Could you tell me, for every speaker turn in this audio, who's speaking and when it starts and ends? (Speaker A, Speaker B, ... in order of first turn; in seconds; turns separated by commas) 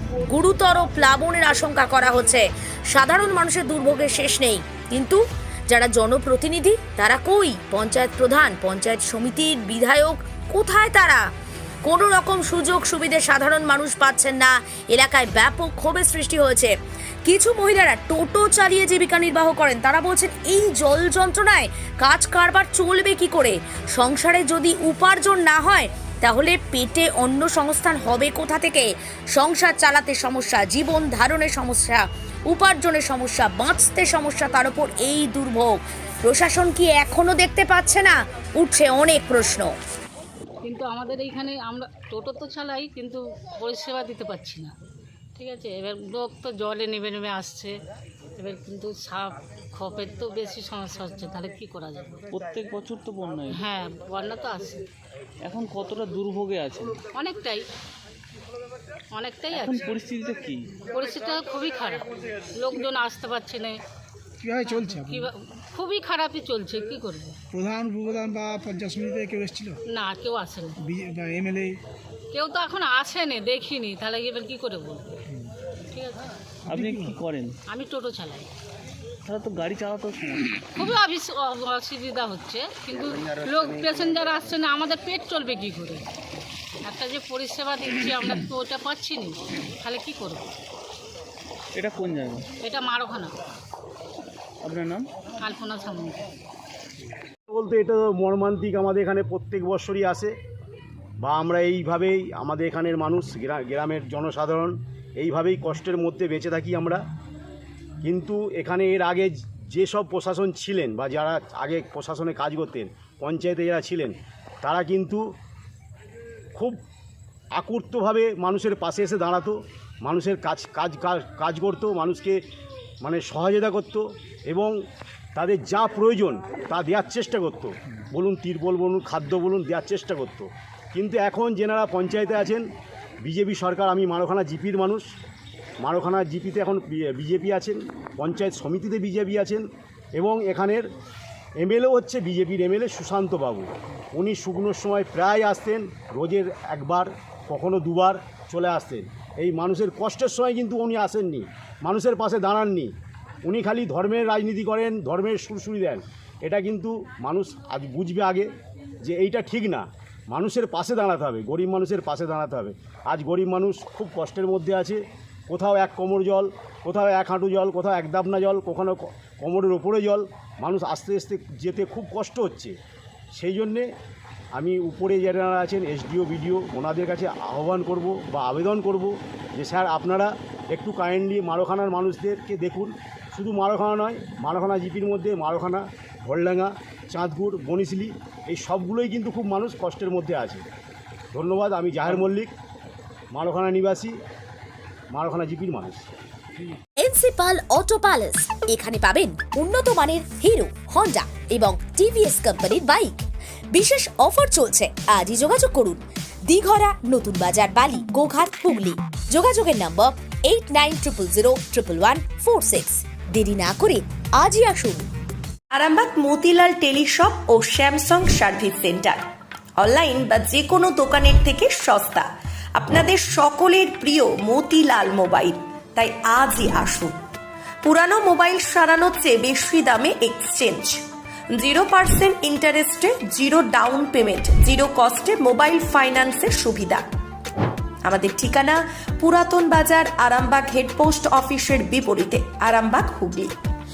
Speaker A: 0.2-11.2, Speaker A: 11.8-16.7, Speaker A: 17.2-39.7, Speaker B: 40.6-44.7, Speaker B: 45.4-47.7, Speaker B: 48.4-52.2, Speaker C: 52.3-53.6, Speaker B: 53.5-54.8, Speaker C: 55.4-57.0, Speaker B: 57.1-57.6, Speaker B: 59.1-59.9, Speaker C: 59.5-60.8, Speaker B: 60.9-63.8, Speaker D: 64.4-65.3, Speaker B: 64.6-67.4, Speaker D: 67.5-69.8, Speaker B: 69.9-70.8, Speaker D: 70.8-71.8, Speaker B: 72.3-75.2, Speaker B: 75.9-76.3, Speaker C: 76.7-77.5, Speaker D: 76.7-77.1, Speaker B: 77.7-78.5, Speaker C: 79.2-80.7, Speaker B: 80.8-86.0, Speaker B: 86.8-90.5, Speaker C: 91.7-92.5, Speaker B: 92.6-93.3, Speaker C: 94.6-95.1, Speaker B: 95.4-96.2, Speaker E: 97.5-100.3, Speaker E: 101.2-107.0, Speaker E: 108.0-115.2, Speaker E: 117.5-122.4, Speaker E: 123.0-124.7, Speaker E: 125.3-132.7, Speaker E: 133.2-135.1, Speaker E: 135.8-139.6, Speaker E: 140.2-140.8, Speaker E: 141.6-152.9, Speaker E: 153.4-158.5, Speaker E: 159.0-172.8, Speaker E: 173.4-173.9, Speaker E: 174.6-190.6, Speaker E: 191.3-192.5, Speaker E: 193.3-194.1, Speaker E: 195.1-196.1, Speaker A: 197.0-215.1, Speaker F: 215.7-219.2, Speaker F: 219.8-227.2, Speaker F: 227.8-237.1, Speaker F: 238.0-243.5